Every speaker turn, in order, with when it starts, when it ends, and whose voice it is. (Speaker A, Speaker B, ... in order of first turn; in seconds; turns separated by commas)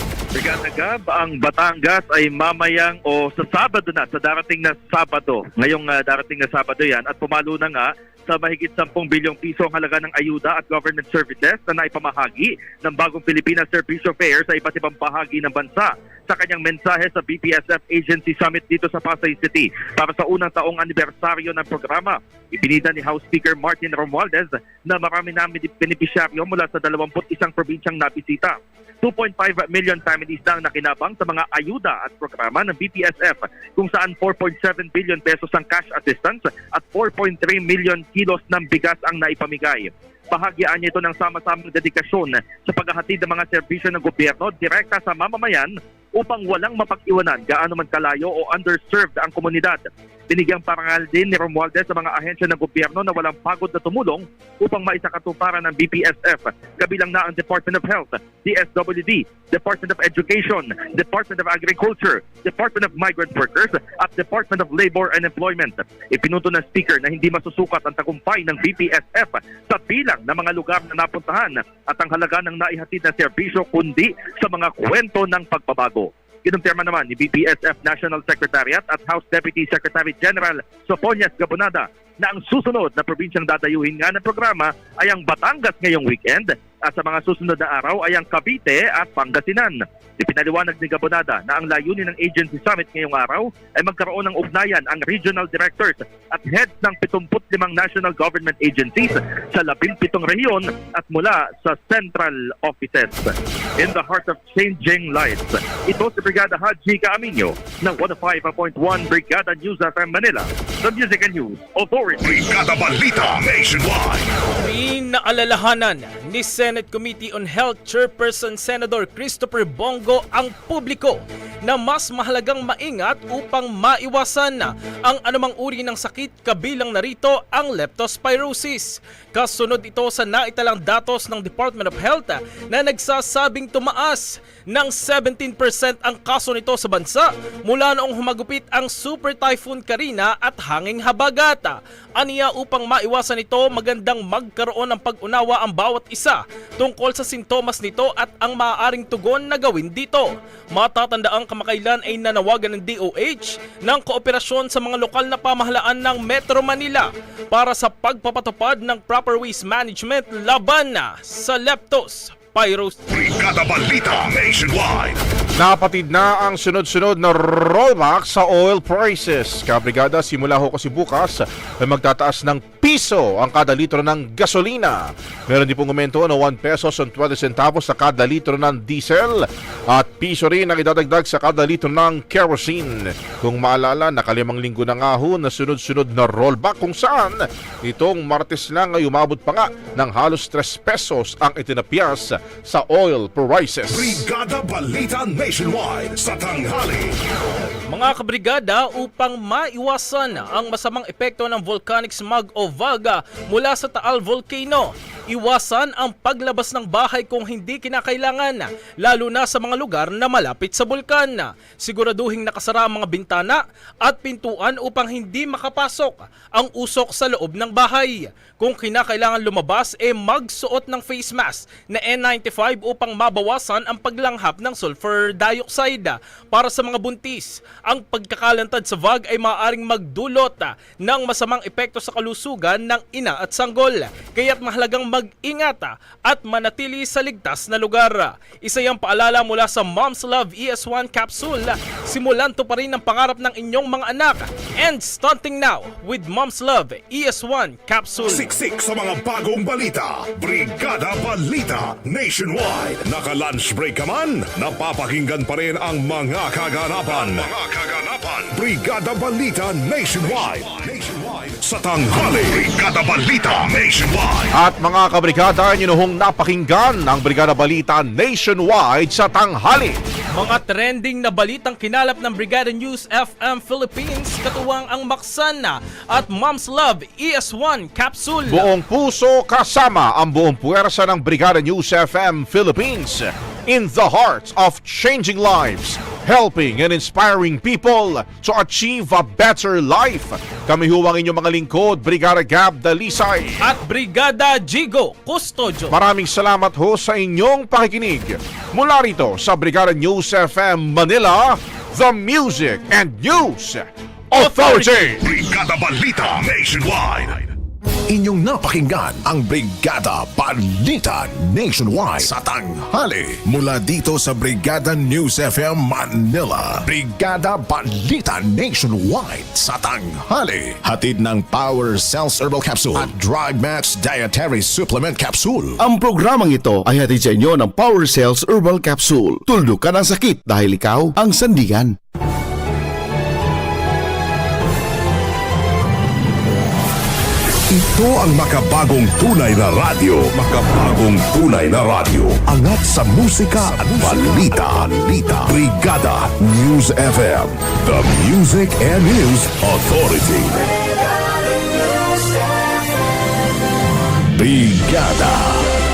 Speaker A: 0.3-112.5, Speaker B: 112.2-114.3, Speaker C: 114.6-163.0, Speaker B: 163.1-165.2, Speaker D: 165.6-175.0, Speaker D: 175.5-194.3, Speaker B: 193.9-197.2, Speaker C: 197.9-248.5, Speaker B: 248.3-264.5, Speaker D: 264.5-270.0, Speaker C: 270.4-278.7, Speaker D: 278.5-293.6, Speaker C: 293.6-295.9, Speaker D: 295.9-305.2, Speaker C: 304.4-305.1, Speaker B: 305.2-307.5, Speaker E: 308.1-325.8, Speaker F: 325.8-332.0, Speaker B: 337.7-346.3, Speaker E: 343.5-345.6, Speaker E: 346.2-350.5, Speaker E: 354.3-355.7